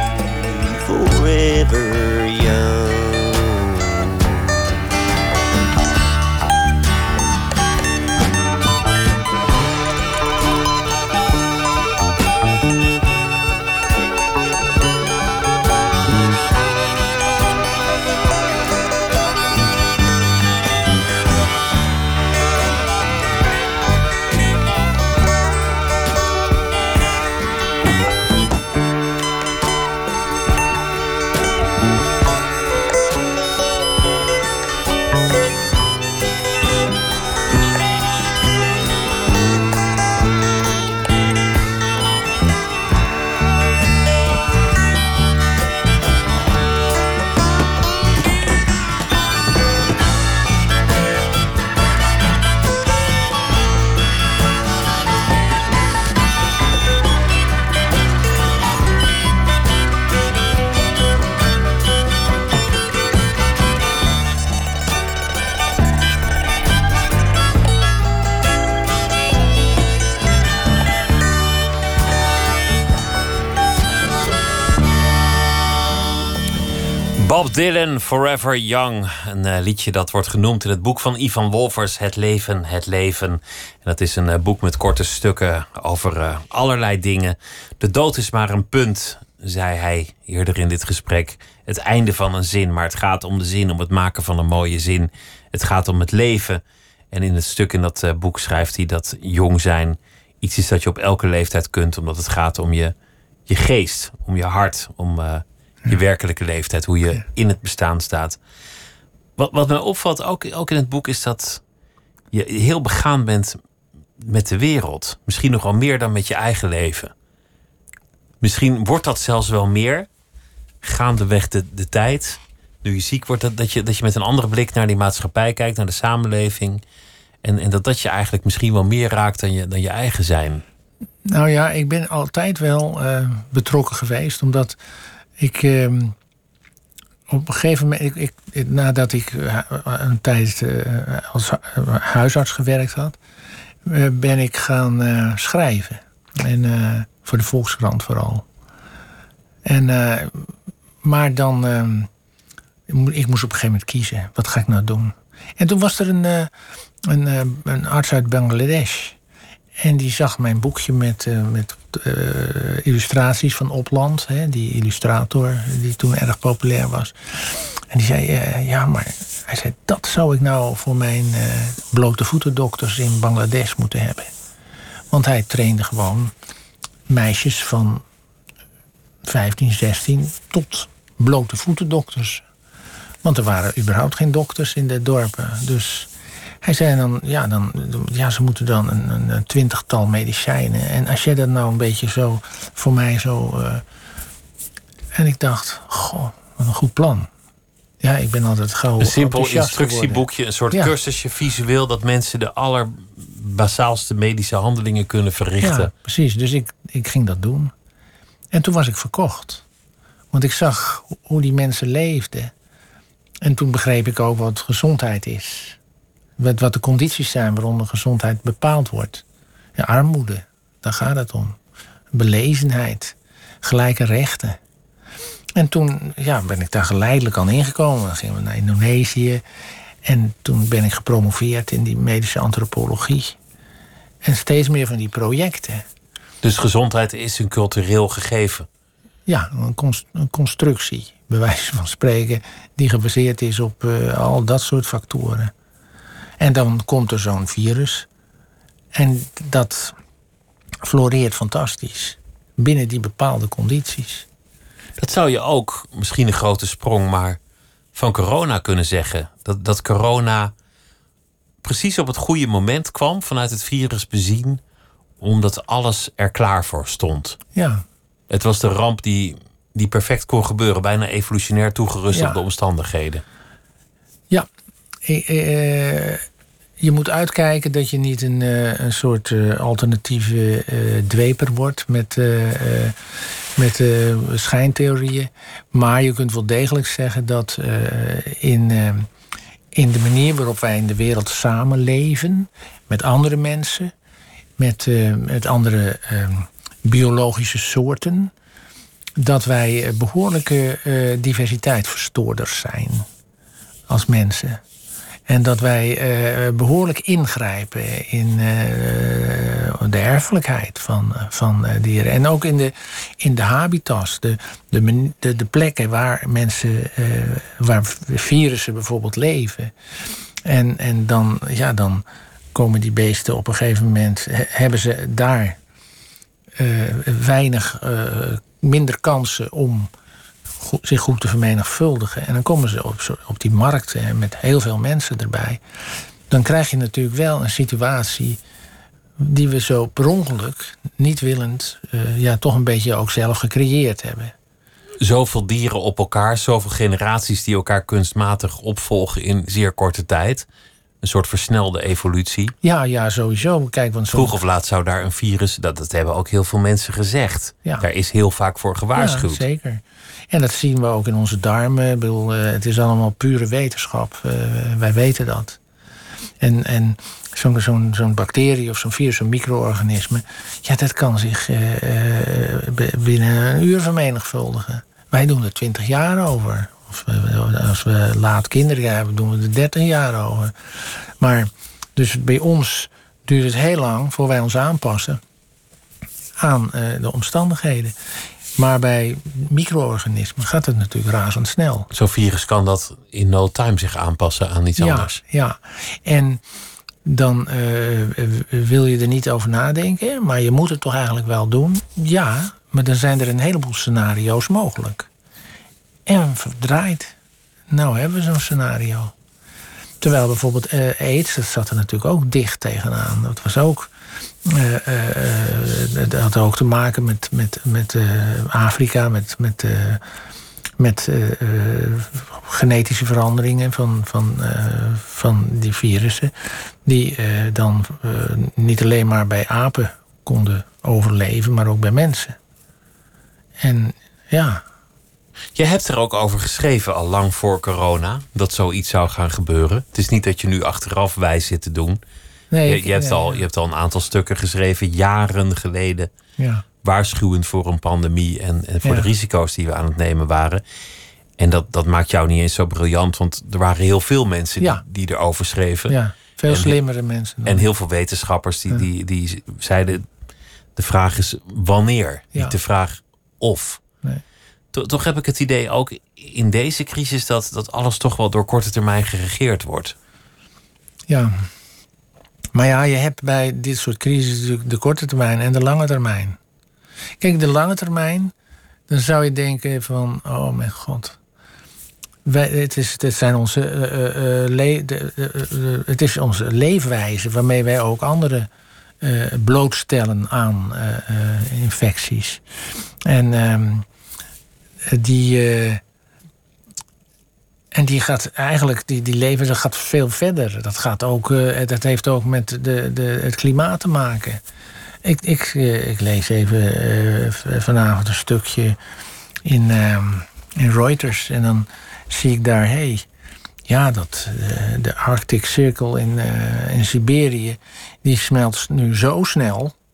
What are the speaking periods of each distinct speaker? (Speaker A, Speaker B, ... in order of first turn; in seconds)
Speaker A: 0.3-4.6
Speaker B: 77.2-103.0, 103.5-108.4, 109.4-111.6, 112.3-113.6, 114.2-117.1, 118.4-120.1, 120.8-126.8, 127.4-130.6, 199.0-205.9, 236.4-238.7, 255.0-257.4, 257.9-260.5, 261.6-264.6, 265.2-267.4, 268.3-273.2, 345.0-350.5, 351.0-352.6, 354.1-359.4, 391.9-395.2, 435.6-442.0, 442.7-446.1, 446.8-450.6, 451.4-455.9, 456.5-456.8, 457.4-460.1, 460.8-463.8, 464.7-469.9
Speaker C: 131.2-134.8, 135.4-136.2, 137.3-143.2, 143.9-148.5, 149.7-152.1, 152.9-156.5, 157.1-159.2, 159.8-174.3, 175.1-176.3, 177.1-178.0, 179.2-182.4, 183.2-186.1, 186.6-193.8, 195.1-197.3, 198.0-200.9, 205.6-207.7, 208.5-209.6, 210.3-212.5, 213.4-215.8, 216.4-219.2, 219.8-221.6, 222.1-224.6, 225.6-229.4, 230.0-233.4, 234.2-235.8, 239.3-245.5, 246.4-248.1, 248.9-250.0, 250.8-254.3, 267.6-267.8, 272.1-272.4, 275.1-276.2, 276.8-289.1, 289.7-293.9, 294.6-298.3, 299.2-303.1, 303.9-304.6, 305.3-319.7, 320.4-325.6, 326.6-329.9, 330.6-335.6, 336.3-338.4, 339.2-344.3, 352.6-354.4, 358.9-365.6, 366.4-385.2, 386.4-387.9, 388.6-391.9, 394.8-396.4, 397.1-405.1, 406.1-407.1, 407.7-409.1, 410.0-413.9, 414.4-420.0, 420.8-432.4, 433.6-434.6, 442.5-443.4, 446.4-446.6, 448.8-449.1, 455.9-457.7, 471.1-471.5, 472.5-476.4, 477.2-478.3, 478.9-481.2, 482.2-488.5, 489.0-492.4, 493.0-493.9, 494.9-495.8, 497.7-504.4, 505.0-508.8, 509.4-513.1, 513.7-519.8